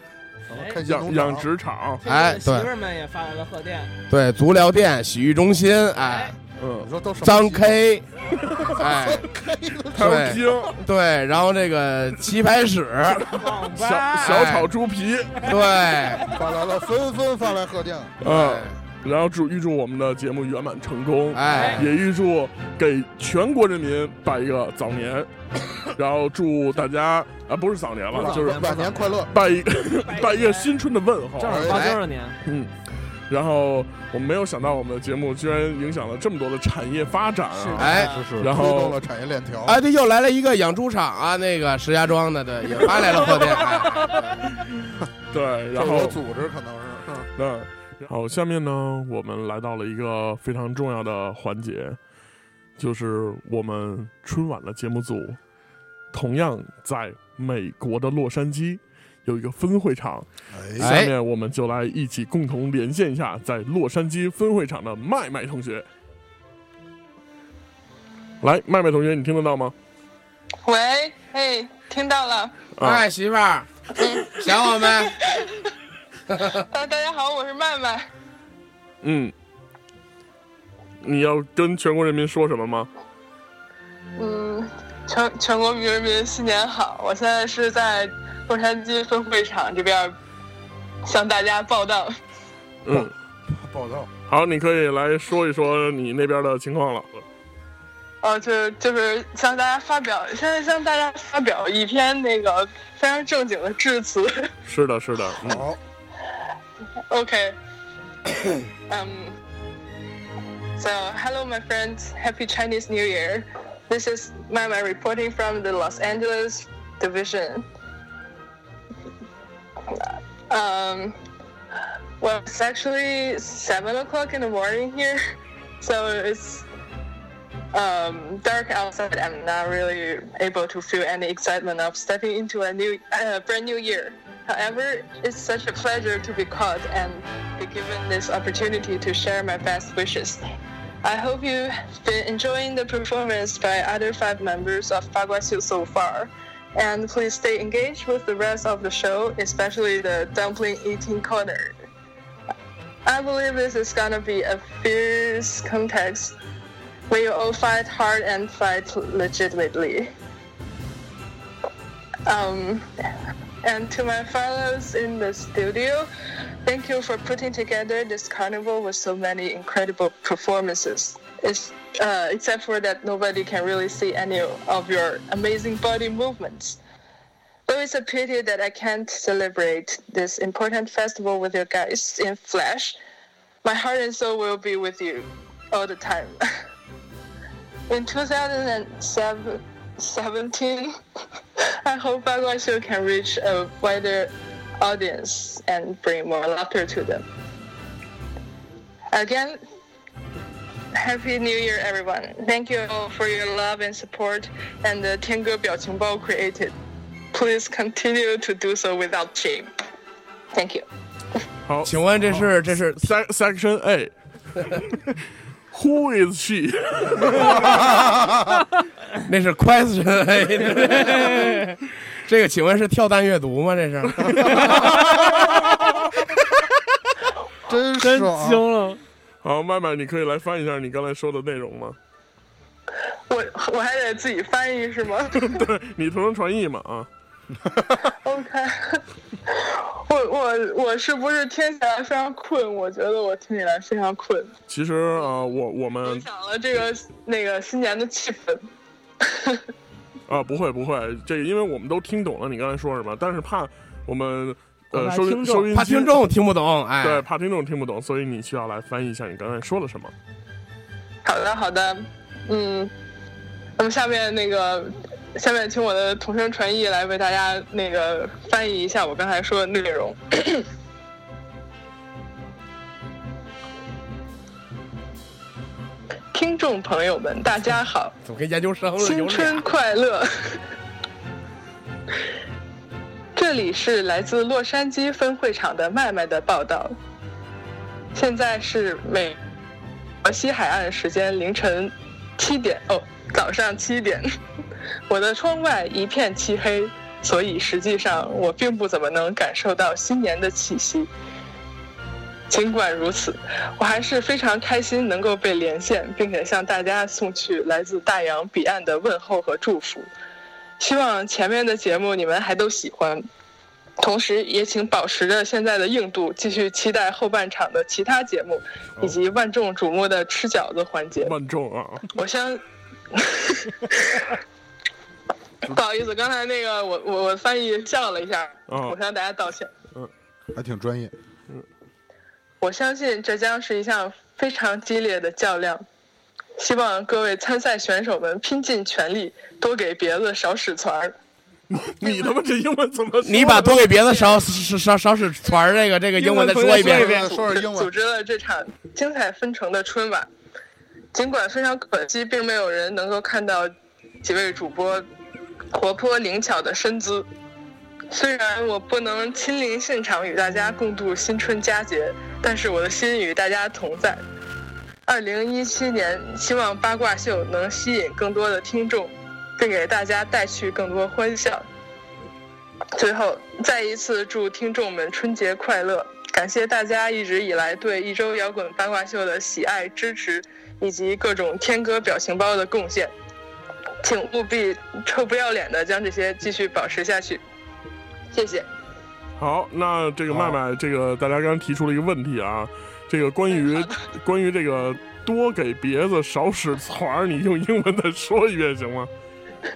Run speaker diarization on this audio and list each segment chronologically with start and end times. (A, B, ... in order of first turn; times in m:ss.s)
0:00.5-0:00.8 A
0:00.5-0:01.5 B
0:00.8-0:02.0 C
0:02.0-0:03.9 A
0:02.0-0:02.7 D
0:04.1-0:06.3 D
0:06.0-0:06.3 A
0:06.6-0:06.9 C
0:06.8-0:07.8 B
0:07.2-0:08.0 D
0:08.6-0:10.4 B
0:08.6-0:09.2 D
0:09.9-0:10.7 C
0:10.0-0:13.4 D
0:13.3-0:14.5 A
0:13.7-0:15.4 C
0:14.2-0:14.7 D
0:15.4-0:16.3 D
0:16.3-0:18.1 B
0:18.2-0:25.3 C
0:18.2-0:18.7 D
0:21.3-0:21.9 D
0:21.4-0:21.8 A
0:25.8-0:31.7 C
0:28.1-0:29.3 B
0:28.2-0:28.9 E
0:30.0-0:30.7 A
0:31.4-0:32.4 E
0:31.4-0:31.9 B
0:31.7-0:32.0 D
0:32.4-0:32.7 C
0:33.3-0:39.0 C
0:37.5-0:38.3 A
0:37.8-0:38.1 D
0:37.8-0:39.8 B
0:39.6-0:44.4 D
0:45.3-0:46.2 C
0:45.7-0:47.3 B
0:47.4-0:52.0 C
0:52.8-0:55.4 C
0:56.1-1:00.2 C
1:00.5-1:00.9 B
1:00.8-1:05.8 C
1:00.8-1:01.1 D
1:08.4-1:09.7 C
1:10.6-1:12.6 F
1:12.8-1:13.0 C
1:12.8-1:15.2 D
1:14.0-1:14.3 F
1:15.0-1:15.4 F
1:16.3-1:16.6 D
1:16.7-1:18.1 F
1:19.0-1:19.3 C
1:21.0-1:22.9 C
1:24.2-1:30.1 F
1:31.0-1:32.1 F
1:32.8-1:33.1 C
1:32.9-1:34.1 B
1:34.3-1:37.2 C
1:38.2-1:44.5 F
1:44.7-1:45.6 C
1:45.4-1:45.8 B
1:47.1-1:47.6 F
1:48.9-1:49.4 F
1:50.8-1:57.6 F
1:59.9-2:01.2 F
2:02.2-2:05.2 F
2:05.8-2:06.6 F
2:07.7-2:20.4 F
2:21.0-2:31.8 F
2:33.0-2:36.4 F
2:37.1-2:40.1 F
2:42.2-2:42.9 F
2:43.6-2:46.1 F
2:46.6-2:56.8 F
2:57.7-3:03.0 F
3:03.6-3:06.4 F
3:07.9-3:11.0 F
3:11.8-3:17.2 F
3:19.1-3:19.6 F
3:20.9-3:26.7 F
3:27.3-3:29.7 F
3:30.5-3:30.8 F
3:31.6-3:34.1 C
3:31.8-3:33.1 D
3:35.7-3:37.8 C
3:37.4-3:38.6 B
3:39.2-3:44.8 D
3:44.5-3:45.5 B
3:47.7-3:48.6 B
3:48.0-3:49.0 E
3:49.4-3:52.0 C
3:53.3-3:55.6 F
3:55.3-3:57.1 C
3:58.2-4:04.5 F
4:04.7-4:06.2 C
4:06.0-4:08.6 F
4:09.2-4:09.6 F
4:10.3-4:16.2 C
4:14.9-4:15.7 A
4:15.7-4:17.2 D
4:17.0-4:20.1 C
4:21.2-4:22.9 F
4:23.8-4:30.6 F
4:36.3-4:38.2 F
4:38.2-4:39.6 D
4:39.0-4:40.6 F
4:43.4-4:46.9 F
4:48.1-4:49.4 F
4:50.2-4:54.3 F
4:55.1-5:01.1 F
5:02.5-5:10.1 F
5:10.8-5:13.2 F
5:14.0-5:21.3 F
5:21.2-5:22.0 C
5:22.1-5:22.6 F
5:23.1-5:24.3 F
5:25.7-5:29.7 F
5:28.7-5:29.0 C
5:30.5-5:31.1 B
5:32.6-5:35.8 F
5:36.6-5:41.2 F
5:41.7-5:44.0 C
5:42.0-5:42.3 F
5:43.2-5:47.2 D
5:44.1-5:44.4 F
5:46.2-5:47.2 A
5:46.7-5:47.9 B
5:47.0-5:50.3 F
5:51.1-5:55.0 F
5:55.7-5:57.3 F
5:58.1-6:04.2 F
6:05.0-6:11.6 F
6:12.9-6:23.1 F
6:24.0-6:27.4 F
6:28.3-6:28.7 F
6:29.4-6:39.1 C